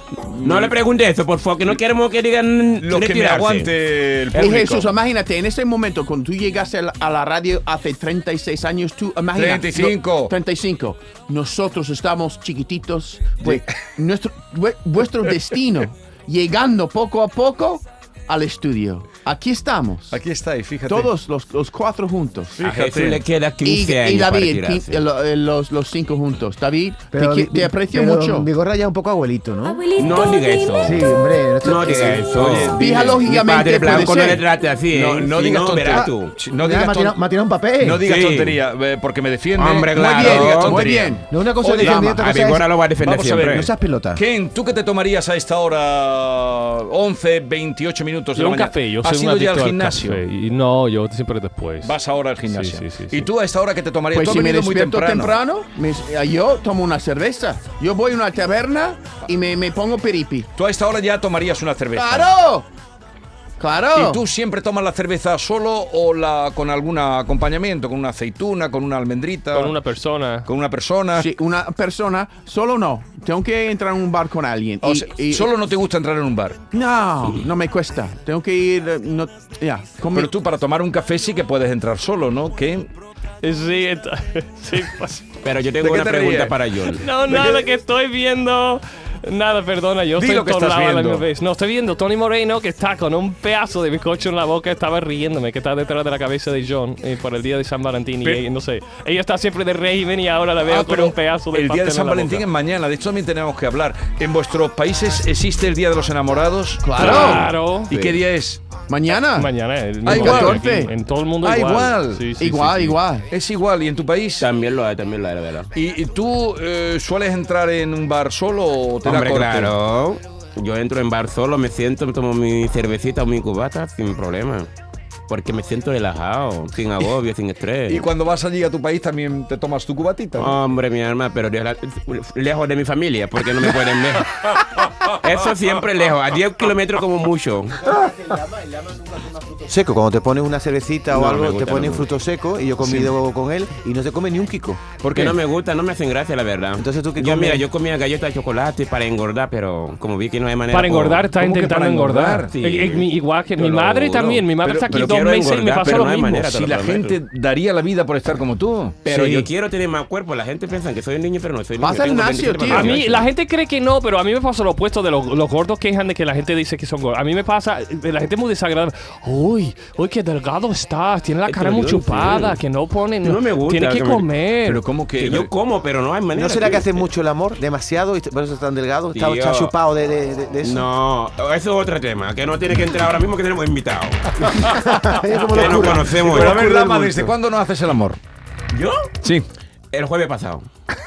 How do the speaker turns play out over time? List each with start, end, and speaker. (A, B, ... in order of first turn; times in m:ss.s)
0:00.3-0:03.7 A
0:00.4-0:00.7 B
0:02.8-0:04.9 B
0:04.3-0:20.2 C
0:09.3-0:10.3 B
0:13.4-0:13.8 B
0:20.1-0:21.1 B
0:20.9-0:22.6 C
0:22.6-0:23.2 B
0:22.6-0:25.0 A
0:23.6-0:28.5 C
0:27.1-0:30.0 D
0:29.9-0:36.4 A
0:30.8-0:32.4 D
0:32.3-0:33.2 B
0:32.8-0:34.4 C
0:34.9-0:37.2 B
0:36.6-0:38.0 D
0:37.8-0:42.0 B
0:38.0-0:38.6 A
0:39.6-0:40.8 A
0:40.0-0:42.3 C
0:41.3-0:42.7 D
0:41.8-0:43.7 A
0:43.0-0:50.2 B
0:43.5-0:44.2 D
0:48.3-0:52.0 E
0:51.8-0:55.4 B
0:52.5-0:53.3 E
0:54.1-1:00.5 C
1:00.6-1:02.3 B
1:01.9-1:02.7 C
1:03.6-1:04.2 C
1:03.9-1:09.8 B
1:09.5-1:10.5 E
1:10.4-1:11.3 B
1:11.1-1:15.5 C
1:14.8-1:16.6 B
1:16.7-1:20.3 C
1:20.1-1:22.9 B
1:23.4-1:25.2 E
1:25.4-1:27.0 A
1:25.8-1:26.6 B
1:26.9-1:42.5 E
1:27.2-1:27.7 B
1:30.2-1:31.2 B
1:40.6-1:48.8 B
1:46.8-1:48.2 C
1:47.0-1:47.9 E
1:48.9-1:49.5 C
1:49.3-1:52.8 E
1:50.0-1:50.7 B
1:50.0-1:50.9 C
1:51.4-1:54.5 B
1:52.4-1:53.3 C
1:54.4-1:55.7 A
1:55.7-1:59.7 B
1:59.0-2:04.7 A
2:05.3-2:08.1 A
2:07.9-2:10.6 B
2:10.4-2:17.9 A
2:17.8-2:24.9 D
2:21.1-2:22.0 A
2:25.0-2:31.3 A
2:26.8-2:27.7 D
2:30.7-2:36.4 E
2:31.3-2:32.5 B
2:32.5-2:37.2 A
2:34.6-2:39.0 B
2:39.0-2:39.5 C
2:39.0-2:43.2 A
2:41.8-2:43.2 C
2:42.7-2:54.8 E
2:51.5-2:52.6 A
2:53.2-2:54.3 A
2:54.6-2:55.5 B
2:55.2-2:57.0 A
2:56.3-3:00.9 D
2:59.1-2:59.7 A
3:00.6-3:04.4 A
3:04.6-3:07.3 D
3:05.5-3:06.7 A
3:05.6-3:08.2 B
3:08.7-3:09.1 A
3:09.9-3:10.7 A